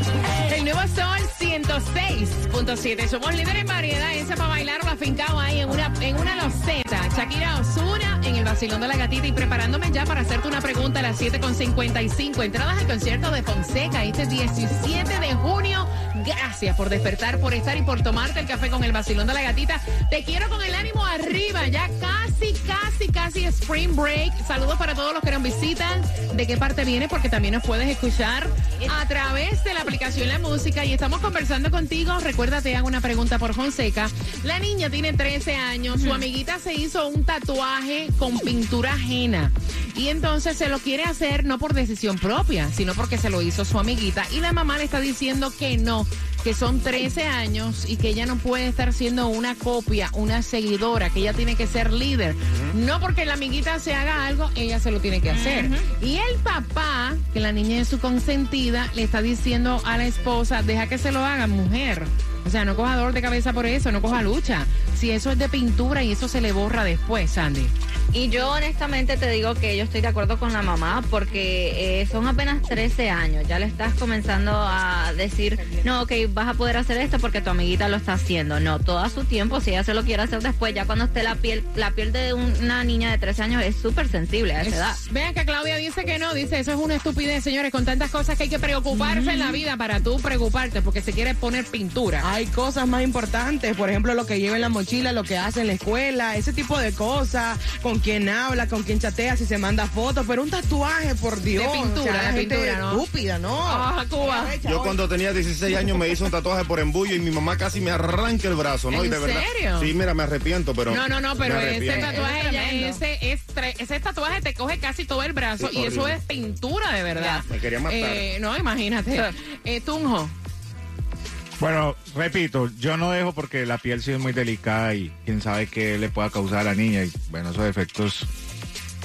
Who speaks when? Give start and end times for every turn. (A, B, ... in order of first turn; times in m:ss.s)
0:00.4-1:07.7 A
0:36.0-0:36.2 B
0:52.5-0:52.7 C
0:55.3-0:55.9 B
1:08.1-1:25.0 B
1:24.6-1:32.3 A
1:28.9-1:29.5 B
1:32.2-1:45.0 D
1:41.5-1:43.0 A
1:43.6-1:44.5 A
1:44.6-1:52.2 C
1:48.9-1:49.9 A
1:50.9-2:00.3 A
1:51.9-1:53.0 D
1:55.6-1:56.2 C
1:57.2-1:57.4 B
1:57.5-1:58.3 C
2:01.6-2:08.2 E